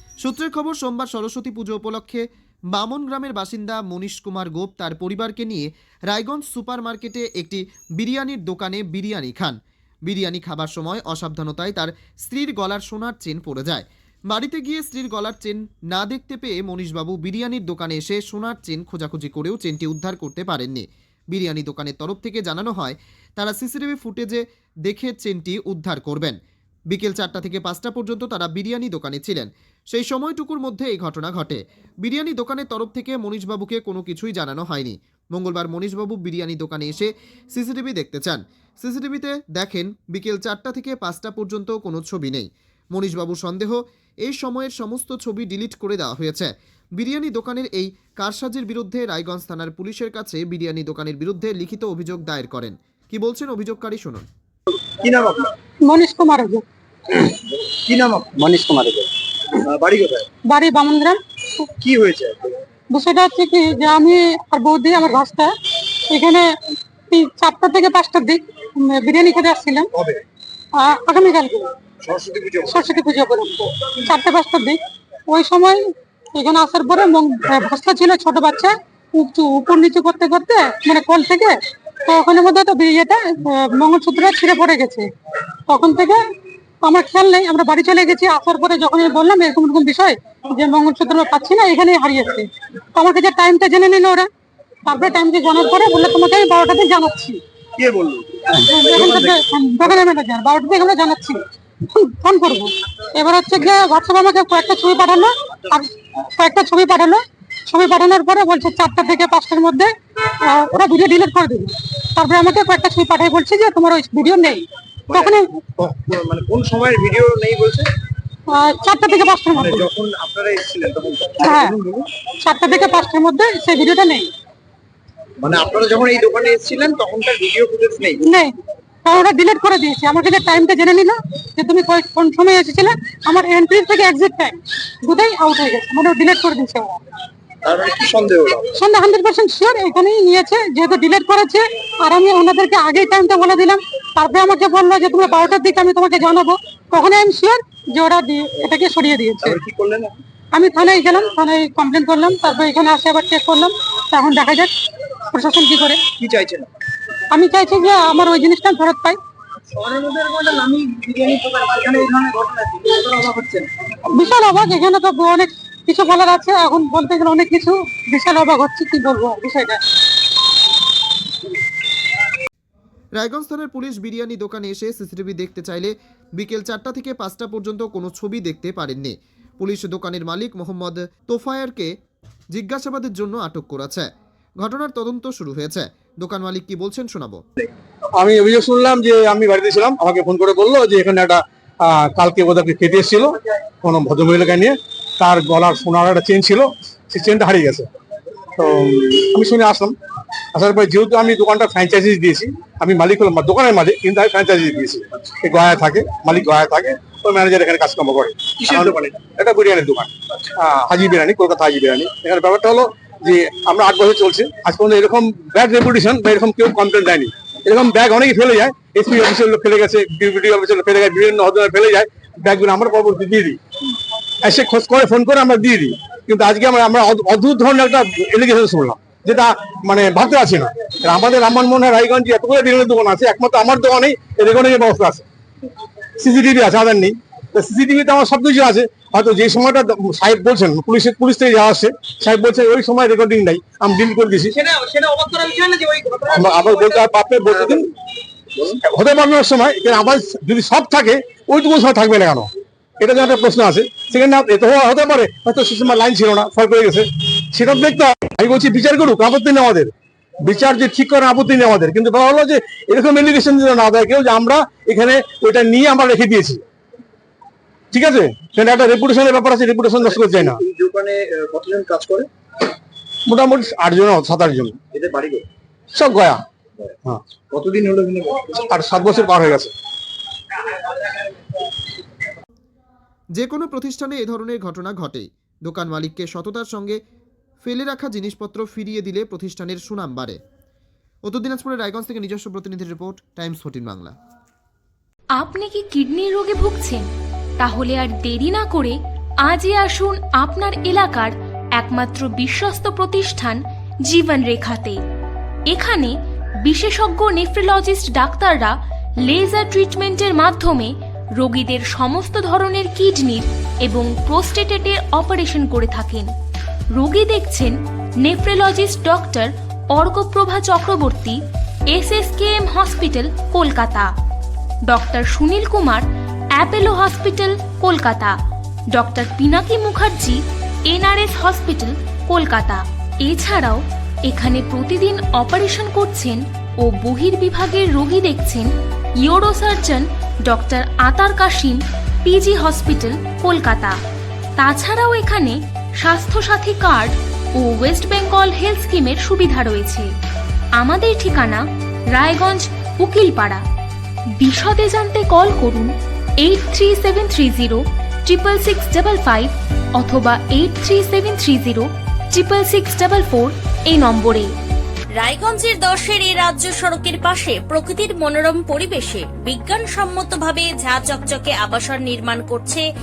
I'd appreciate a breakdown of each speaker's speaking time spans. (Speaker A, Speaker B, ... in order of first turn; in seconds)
Speaker A: 0.2-26.4, 26.9-54.3, 173.2-181.9, 182.5-184.1, 184.6-187.4, 283.3-287.0, 287.6-290.4, 291.2-294.1
Speaker B: 55.0-55.5, 57.8-58.5, 59.6-60.2, 61.8-62.5, 72.0-72.9, 97.8-100.0, 115.1-117.9, 119.5-122.0, 125.4-128.2, 137.6-138.7, 149.4-150.2, 156.2-156.7, 159.7-163.7, 208.6-209.2, 244.6-247.0, 270.0-272.3, 274.9-275.4, 277.5-278.6
Speaker C: 55.8-56.6, 60.5-61.2, 62.9-65.5, 66.1-66.5, 67.1-69.8, 70.8-71.7, 72.8-75.8, 76.3-81.5, 82.0-85.0, 85.7-86.2, 86.8-94.3, 94.8-97.4, 98.8-101.4, 101.9-109.9, 110.5-114.6, 118.5-119.8, 122.4-124.3, 129.1-136.9, 138.8-149.4, 150.5-154.7, 155.3-156.0, 157.3-159.2, 164.1-169.8
Speaker D: 188.2-197.9, 198.6-199.9, 200.5-223.6, 224.4-235.2, 236.2-244.6, 246.3-247.9, 248.8-252.5, 253.0-259.9, 260.4-266.6, 267.9-270.6, 273.3-274.8, 275.9-276.4, 278.6-279.7
Speaker E: 295.4-297.1, 297.6-305.0, 305.7-316.3, 316.9-324.1, 324.9-328.3, 328.9-344.0, 344.6-350.1, 350.7-353.6, 354.4-364.5
Speaker F: 365.1-372.8